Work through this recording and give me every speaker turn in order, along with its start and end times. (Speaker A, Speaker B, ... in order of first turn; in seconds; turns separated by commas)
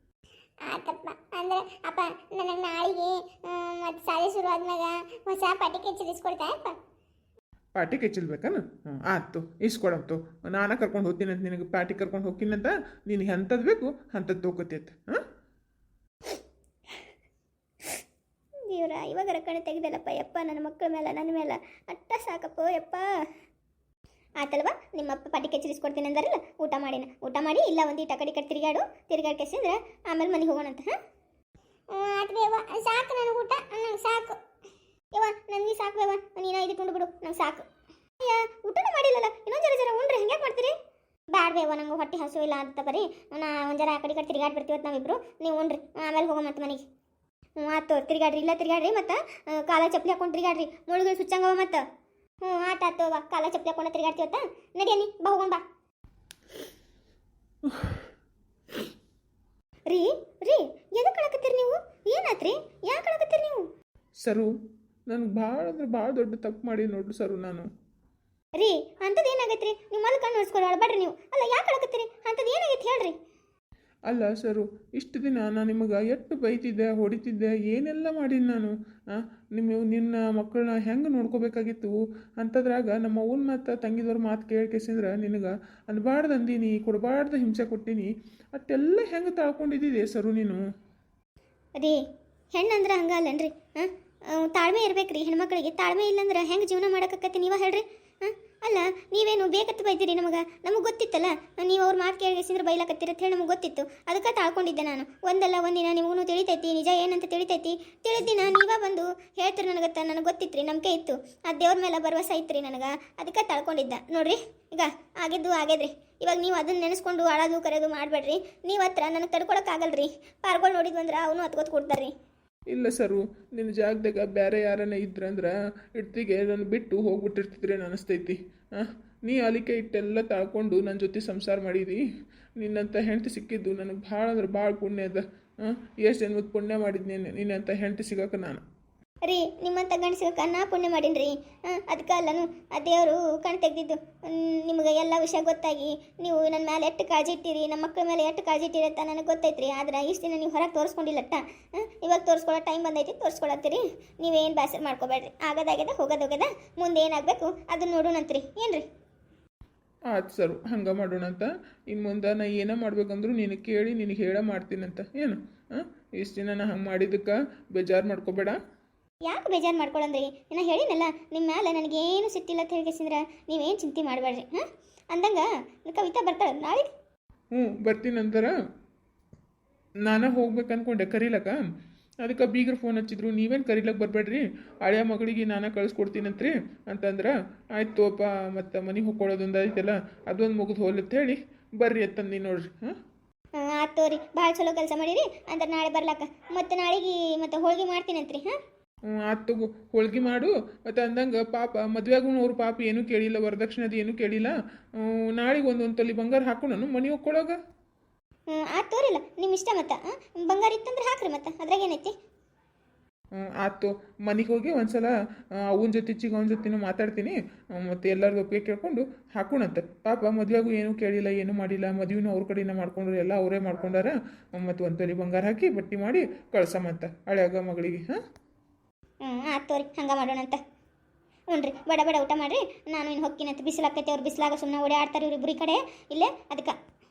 Speaker A: 0.7-6.8, Speaker B: 7.8-15.2, Speaker C: 18.7-23.1, Speaker C: 24.4-30.9, Speaker A: 31.9-34.4, Speaker C: 35.1-37.6, Speaker C: 38.2-40.7, Speaker C: 41.3-46.8, Speaker C: 47.6-51.8, Speaker C: 52.4-55.6, Speaker C: 59.9-63.7, Speaker B: 64.2-64.5, Speaker B: 65.1-67.7, Speaker C: 68.6-73.1, Speaker B: 74.1-90.6, Speaker C: 92.5-122.1, Speaker B: 122.7-132.0, Speaker B: 132.6-138.6, Speaker C: 139.2-158.8, Speaker B: 160.1-168.6, Speaker C: 169.2-176.9, Speaker B: 177.5-178.5, Speaker B: 180.1-181.6, Speaker B: 182.2-192.9, Speaker C: 193.6-198.6, Speaker B: 199.2-207.6, Speaker C: 208.5-212.1, Speaker B: 213.4-215.1, Speaker B: 215.7-228.2, Speaker C: 229.2-230.6, Speaker C: 231.5-236.7